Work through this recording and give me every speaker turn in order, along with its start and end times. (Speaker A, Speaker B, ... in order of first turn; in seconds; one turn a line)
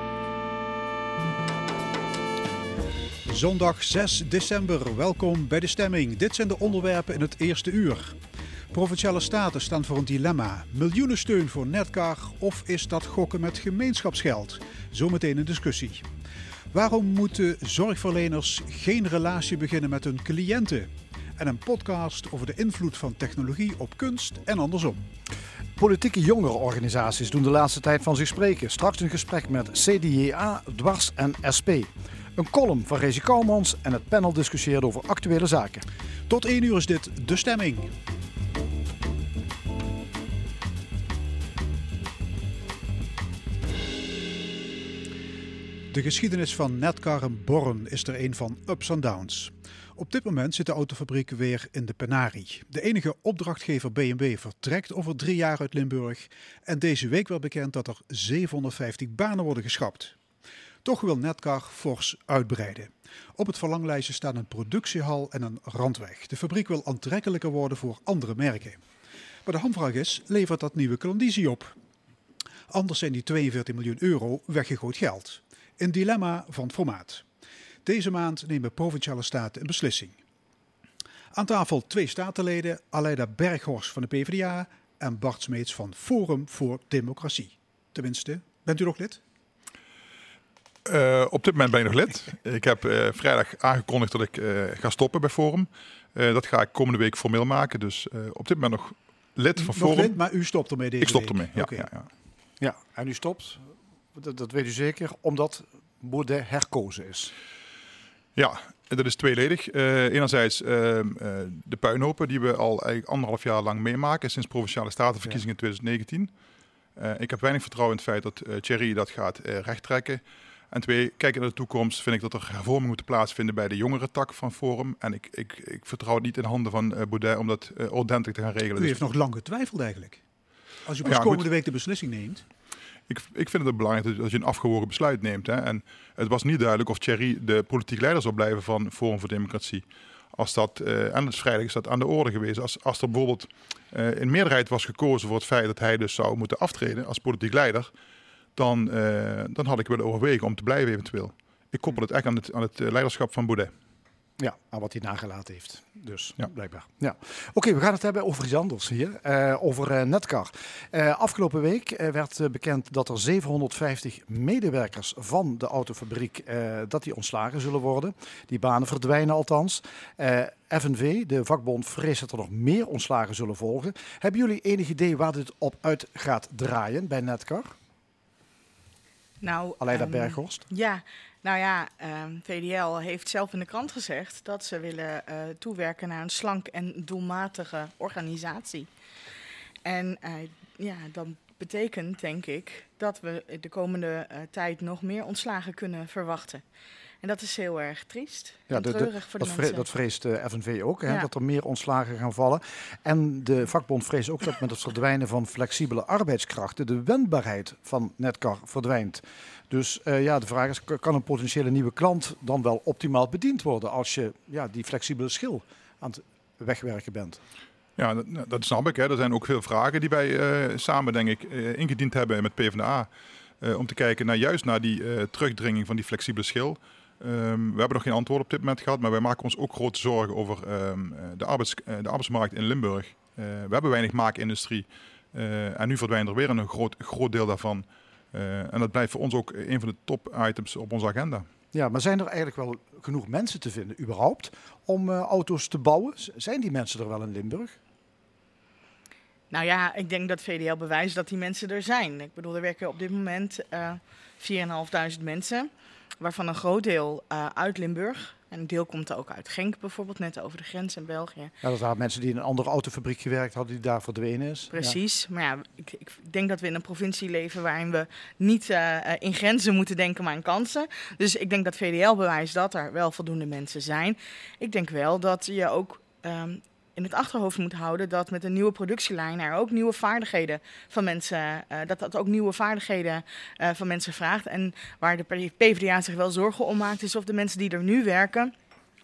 Speaker A: 3.3-8.2
Speaker A: 8.7-16.1
Speaker A: 16.7-25.1
Speaker B: 25.8-35.9
Speaker A: 36.3-37.9
Speaker A: 45.9-60.2
Speaker A: 60.8-68.8
Speaker A: 69.5-71.8
Speaker A: 72.7-77.2
Speaker A: 77.8-80.2
Speaker A: 81.3-89.2
Speaker C: 90.8-100.3
Speaker A: 99.6-101.9
Speaker C: 101.0-102.1
Speaker B: 102.6-107.3
Speaker C: 108.3-116.3
Speaker C: 117.0-129.1
Speaker A: 128.8-130.2
Speaker A: 130.9-132.4
Speaker C: 131.0-131.4
Speaker C: 133.1-147.9
Speaker C: 148.6-153.7
Speaker B: 154.4-177.7
Speaker D: 179.4-188.9
Speaker B: 179.8-180.6
Speaker D: 189.8-196.6
Speaker D: 197.2-199.8
Speaker B: 198.7-217.4
Speaker C: 218.0-241.5
Speaker B: 241.7-247.8
Speaker D: 249.5-261.5
Speaker B: 261.6-265.0
Speaker D: 264.7-288.5